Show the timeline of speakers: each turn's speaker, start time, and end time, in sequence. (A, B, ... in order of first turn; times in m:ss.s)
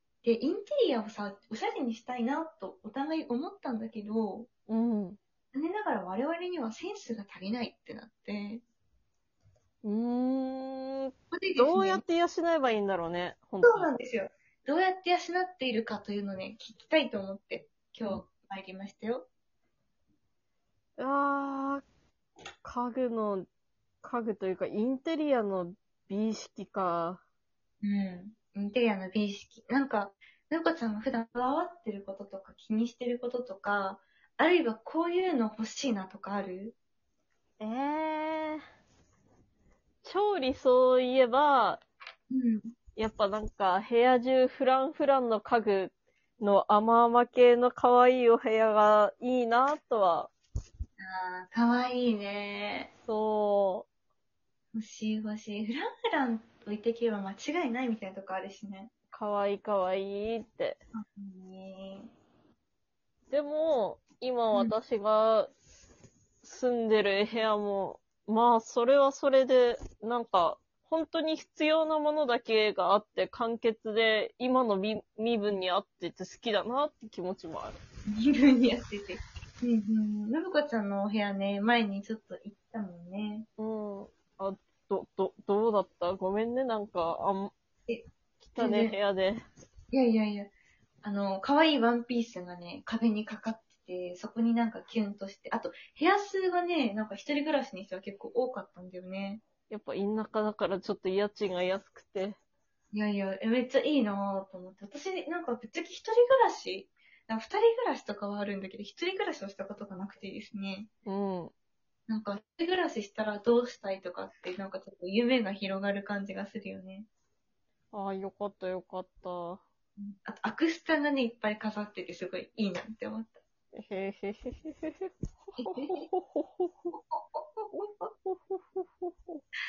0:00.2-0:04.5 A
0:04.7-0:05.2 B
0:05.5-0:08.6 A
0:09.8-0:13.9 B
0:11.3-0:12.0 A
0:13.6-0:19.3 A
0:21.0-0:21.8 B
0:22.6-0:23.5 B
0:24.0-0:27.2 B
0:27.8-0:36.8 A
0:37.6-0:38.6 B
0:40.0-0:41.8 B
0:42.3-0:42.7 A
0:43.0-0:50.3 B
0:51.0-0:52.9 A
0:53.1-0:53.9 B
0:54.7-0:58.9 A
0:59.1-1:00.8 B
1:01.0-1:02.1 A
1:03.3-1:05.5 B
1:06.4-1:17.8 B
1:18.1-1:23.5 A
1:23.6-1:27.5 B
1:27.9-1:29.0 A
1:28.4-1:29.4 B
1:29.9-1:30.5 A
1:31.0-1:39.4 A
1:39.7-1:42.4 B
1:42.9-1:50.9 A
1:51.1-1:51.5 B
1:52.1-1:57.1 A
1:57.9-1:59.6 B
2:00.0-2:03.4 A
2:03.7-2:06.9 B
2:05.6-2:06.1 A
2:06.9-2:08.1 A
2:08.3-2:09.4 B